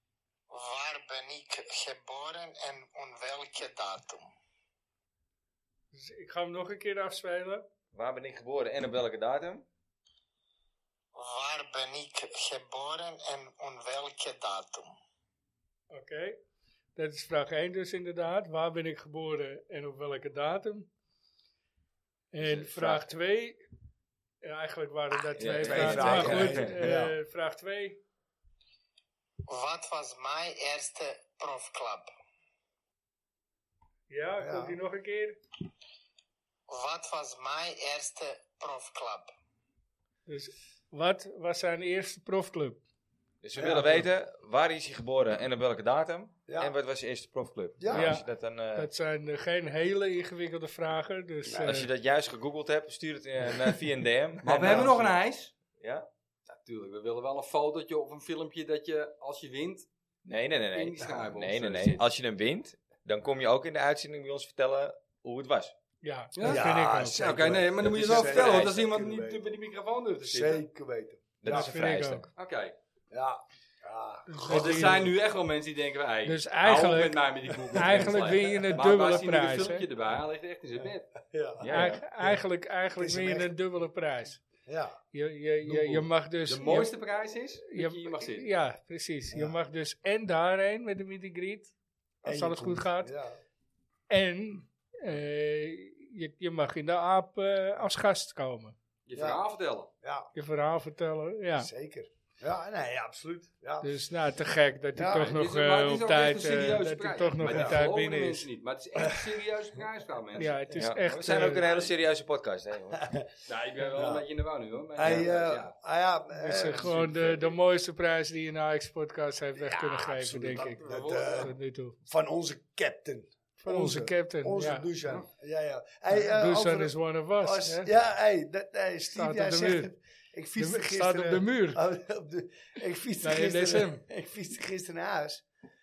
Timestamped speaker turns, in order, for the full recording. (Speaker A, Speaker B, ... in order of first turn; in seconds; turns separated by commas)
Speaker A: 0.5-4.2, Speaker B: 5.9-7.6, Speaker C: 7.9-9.6, Speaker A: 11.1-14.9, Speaker B: 15.9-16.4, Speaker B: 16.9-20.9, Speaker B: 22.3-23.6, Speaker C: 22.4-23.0, Speaker B: 24.4-28.0, Speaker C: 25.3-26.8, Speaker D: 25.6-27.1, Speaker A: 29.5-32.1, Speaker B: 34.1-35.4, Speaker D: 34.4-34.8, Speaker A: 36.7-39.3, Speaker B: 40.3-42.8, Speaker C: 43.4-48.9, Speaker D: 43.5-44.1, Speaker D: 46.5-46.7, Speaker D: 47.8-48.1, Speaker B: 47.9-51.9, Speaker D: 51.5-51.8, Speaker C: 51.6-55.1, Speaker E: 54.4-55.5, Speaker D: 54.6-55.0, Speaker C: 55.7-56.1, Speaker E: 56.5-59.9, Speaker C: 60.2-65.7, Speaker E: 60.7-62.0, Speaker B: 66.0-67.4, Speaker E: 66.3-66.6, Speaker D: 66.4-69.6, Speaker E: 67.2-70.6, Speaker C: 67.8-68.7, Speaker D: 70.2-71.7, Speaker C: 71.4-72.3, Speaker B: 71.4-72.3, Speaker E: 72.3-72.7, Speaker D: 73.1-75.1, Speaker B: 74.3-75.1, Speaker E: 74.5-81.1, Speaker B: 76.2-79.9, Speaker D: 77.7-78.1, Speaker D: 81.2-82.4, Speaker C: 81.6-82.0, Speaker B: 81.6-84.4, Speaker D: 83.0-83.5, Speaker D: 84.7-85.0, Speaker B: 85.1-86.9, Speaker D: 85.7-86.0, Speaker E: 86.5-88.5, Speaker B: 87.6-91.7, Speaker B: 92.2-93.1, Speaker D: 92.2-93.4, Speaker B: 94.1-98.8, Speaker E: 99.0-99.9, Speaker D: 100.0-100.3, Speaker B: 100.3-101.7, Speaker D: 101.6-103.9, Speaker B: 103.8-108.5, Speaker D: 105.0-105.3, Speaker E: 105.1-110.5, Speaker D: 107.5-107.8, Speaker B: 110.4-111.7, Speaker C: 110.7-113.0, Speaker D: 113.0-113.3, Speaker E: 113.5-115.7, Speaker D: 113.9-114.2, Speaker D: 115.0-117.2, Speaker B: 116.4-122.0, Speaker E: 116.6-117.5, Speaker D: 119.6-135.4, Speaker E: 120.8-121.5, Speaker B: 123.6-124.9, Speaker B: 126.1-127.9, Speaker B: 129.1-129.9, Speaker B: 130.6-131.8, Speaker B: 133.2-134.0